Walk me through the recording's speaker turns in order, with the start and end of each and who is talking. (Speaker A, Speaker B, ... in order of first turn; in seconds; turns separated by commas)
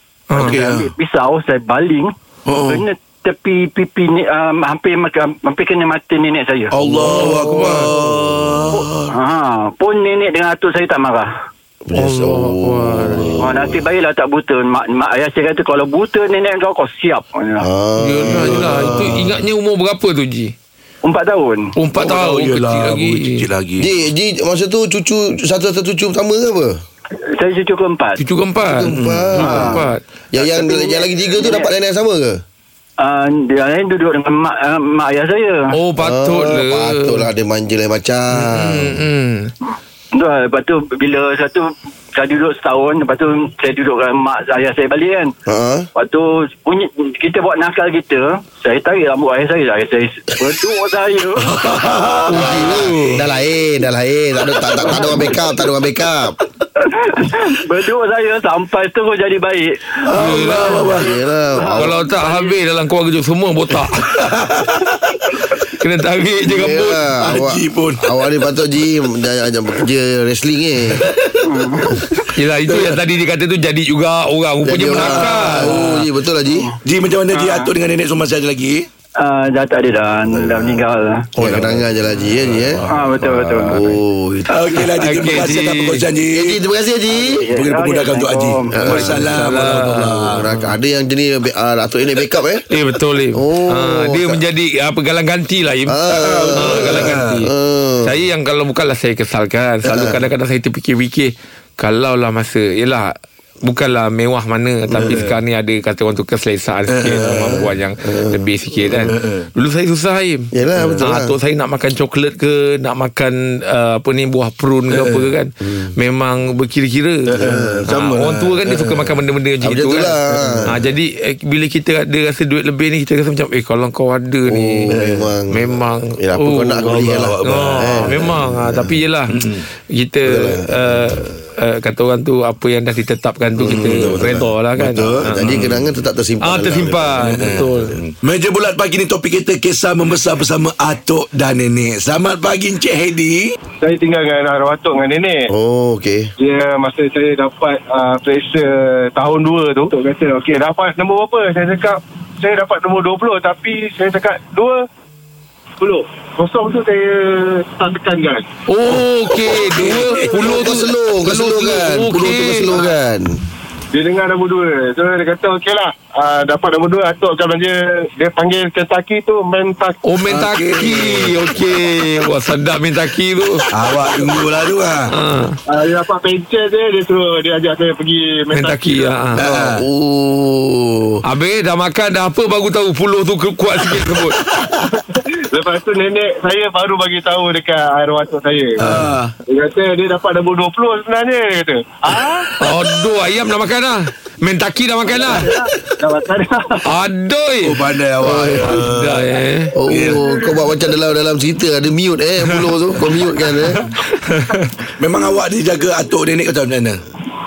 Speaker A: 0.3-0.6, Speaker B: 0.3-0.9, Speaker C: 0.4-6.7, Speaker B: 2.5-2.8, Speaker B: 6.7-9.1, Speaker D: 6.8-8.8, Speaker A: 7.0-7.9, Speaker C: 8.7-11.3, Speaker D: 11.8-13.8, Speaker A: 11.9-13.4, Speaker C: 13.4-17.6, Speaker D: 17.6-19.3, Speaker A: 18.0-20.5, Speaker B: 18.2-19.3, Speaker C: 21.0-21.8, Speaker A: 21.8-23.5, Speaker B: 21.9-23.9, Speaker D: 23.8-26.8, Speaker C: 27.2-28.2, Speaker A: 28.2-30.0, Speaker D: 28.6-32.4, Speaker B: 28.9-29.4, Speaker C: 29.4-31.7, Speaker C: 33.0-35.7, Speaker A: 35.7-37.3, Speaker D: 36.0-39.0, Speaker A: 38.3-39.5, Speaker C: 40.1-45.3, Speaker D: 45.5-45.9, Speaker C: 45.9-51.5, Speaker B: 51.4-53.2, Speaker A: 52.3-53.2, Speaker D: 52.3-56.4, Speaker B: 54.9-55.3, Speaker C: 56.8-60.0, Speaker B: 60.0-61.1, Speaker A: 60.1-61.0, Speaker D: 60.9-62.0, Speaker C: 61.6-62.5, Speaker A: 61.7-64.2, Speaker B: 64.0-65.5, Speaker A: 65.8-67.2, Speaker D: 66.4-71.1, Speaker B: 67.2-68.0, Speaker B: 70.9-71.5, Speaker C: 71.4-72.1, Speaker A: 72.3-76.0, Speaker D: 74.6-76.7, Speaker B: 75.0-76.0, Speaker B: 76.8-78.8, Speaker C: 77.3-77.7, Speaker C: 79.2-81.3, Speaker D: 80.3-80.8, Speaker D: 81.4-82.9, Speaker A: 81.4-81.8, Speaker B: 82.6-82.8, Speaker C: 82.9-83.8, Speaker D: 83.6-84.5, Speaker B: 84.5-86.6, Speaker A: 84.9-86.0, Speaker D: 86.3-87.5, Speaker C: 87.1-89.1, Speaker B: 87.5-90.5, Speaker D: 88.7-92.6, Speaker A: 89.3-90.4, Speaker A: 92.7-96.0, Speaker D: 93.3-94.4, Speaker D: 95.9-98.1, Speaker B: 96.1-97.4, Speaker A: 96.5-124.9, Speaker B: 104.9-105.3, Speaker B: 106.9-107.7, Speaker D: 108.0-109.1, Speaker B: 109.0-109.5, Speaker D: 110.5-111.3, Speaker B: 110.8-111.0, Speaker B: 114.9-115.3, Speaker D: 115.6-115.9, Speaker B: 117.3-119.2, Speaker D: 117.4-117.9, Speaker D: 119.6-120.8, Speaker B: 120.3-120.8, Speaker D: 124.5-129.0, Speaker B: 124.9-125.3, Speaker A: 125.5-135.7, Speaker B: 127.1-128.3, Speaker B: 129.3-129.7, Speaker D: 130.2-131.2, Speaker D: 133.6-137.7, Speaker B: 133.6-135.8, Speaker A: 136.4-138.0, Speaker B: 137.2-143.6, Speaker E: 143.8-145.5, Speaker D: 145.5-146.3, Speaker E: 146.4-154.8, Speaker E: 155.8-158.5, Speaker A: 158.7-162.9, Speaker B: 158.9-160.5, Speaker D: 160.2-163.4, Speaker E: 163.9-170.0, Speaker A: 170.0-173.7, Speaker B: 170.2-171.4, Speaker B: 173.7-175.1, Speaker A: 175.1-175.6, Speaker E: 175.7-179.2, Speaker A: 178.5-179.4, Speaker B: 179.4-179.8, Speaker D: 179.4-181.2, Speaker A: 181.2-184.4, Speaker B: 184.5-184.8, Speaker E: 185.1-188.9, Speaker B: 188.8-189.3, Speaker E: 189.5-192.5, Speaker A: 192.6-195.6, Speaker E: 195.1-196.9, Speaker A: 196.8-197.9, Speaker B: 197.6-199.3, Speaker D: 198.2-198.8, Speaker A: 198.4-199.8, Speaker D: 199.8-203.8, Speaker B: 199.9-200.2, Speaker A: 203.8-204.7, Speaker B: 205.0-207.0